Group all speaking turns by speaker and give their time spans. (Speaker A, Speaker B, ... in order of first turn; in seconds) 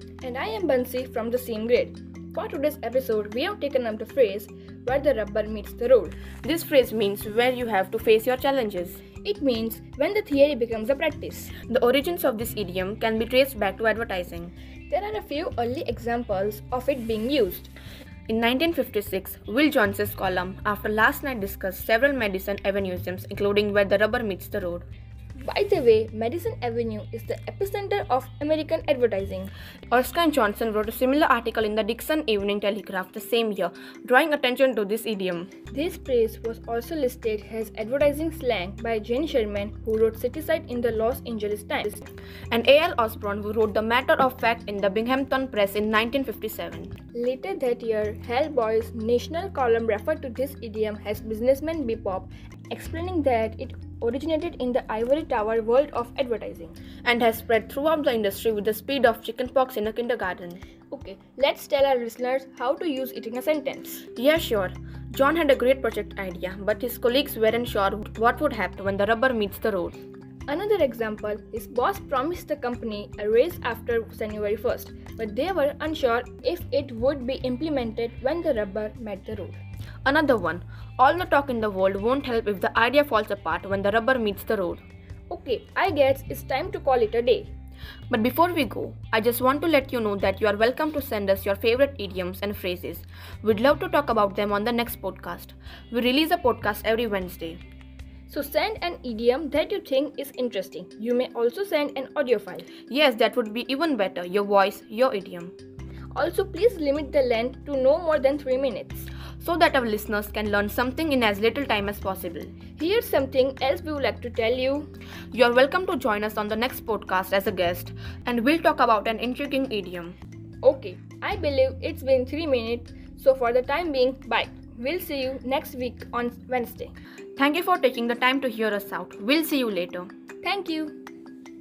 Speaker A: 0.2-6.2, 9.2-11.5, 14.9-17.7, 25.4-29.5, 35.7-42.1, 47.1-56.8, 60.9-64.0, 70.5-79.6, 85.3-87.5, 98.3-102.7, 106.1-109.1, 112.8-114.9, 120.6-126.9, 130.4-130.9
Speaker B: 6.4-9.0, 11.6-14.5, 18.3-24.9, 29.9-35.5, 42.5-46.9, 57.0-60.6, 64.2-70.0, 80.0-84.8, 88.1-97.6, 102.9-105.5, 109.4-112.5, 115.3-120.2, 127.3-130.1